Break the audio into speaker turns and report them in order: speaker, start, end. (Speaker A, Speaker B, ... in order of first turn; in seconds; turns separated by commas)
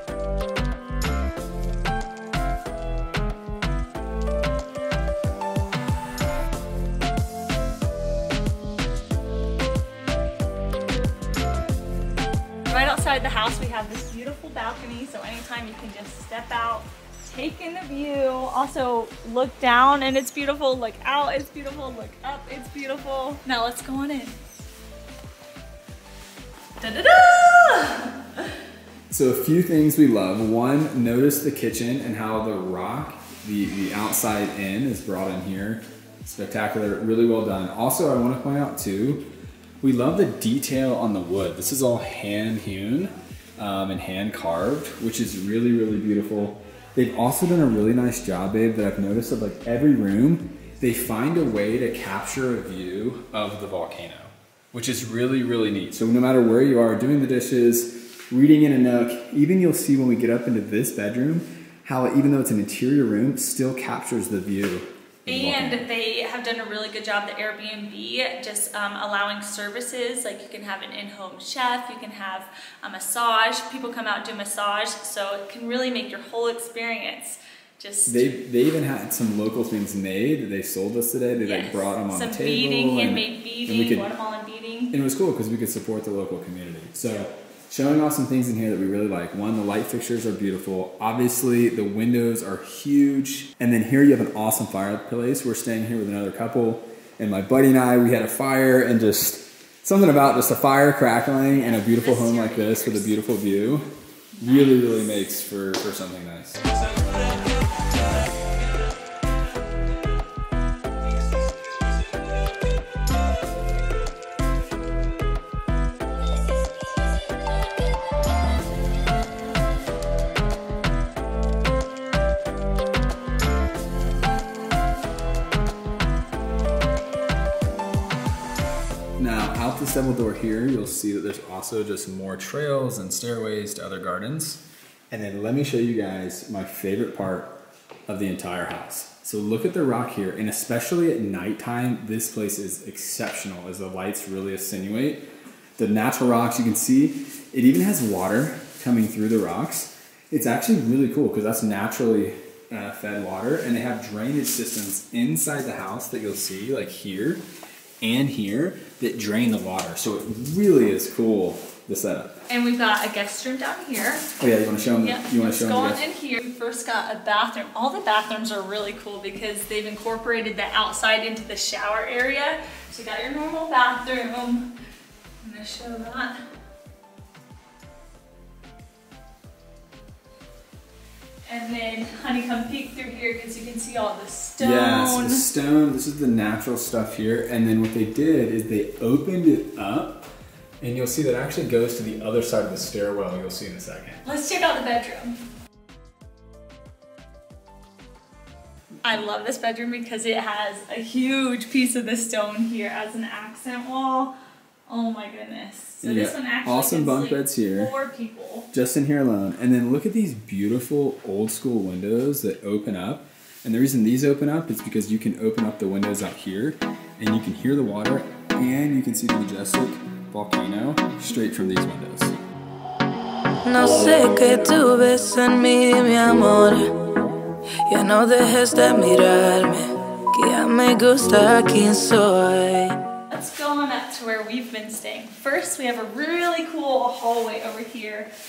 Speaker A: 12.7-24.4, Speaker A: 26.8-28.5, Speaker B: 29.1-39.3, Speaker B: 39.8-65.8, Speaker A: 65.3-78.3, Speaker B: 78.1-84.1, Speaker A: 81.4-84.9, Speaker B: 84.9-103.9, Speaker A: 101.5-103.2, Speaker A: 104.3-105.2, Speaker B: 104.4-106.6, Speaker B: 129.2-145.3, Speaker B: 145.8-157.4, Speaker B: 158.0-162.4, Speaker A: 162.5-164.3, Speaker B: 164.4-166.0, Speaker A: 165.0-174.7, Speaker A: 175.4-176.4, Speaker A: 181.5-185.4, Speaker B: 184.6-190.3, Speaker B: 190.8-194.2, Speaker A: 194.2-195.4, Speaker A: 199.0-204.3, Speaker A: 204.9-208.7, Speaker B: 206.0-207.9, Speaker B: 208.7-222.4, Speaker C: 223.7-226.9, Speaker C: 227.9-233.0, Speaker A: 233.3-238.3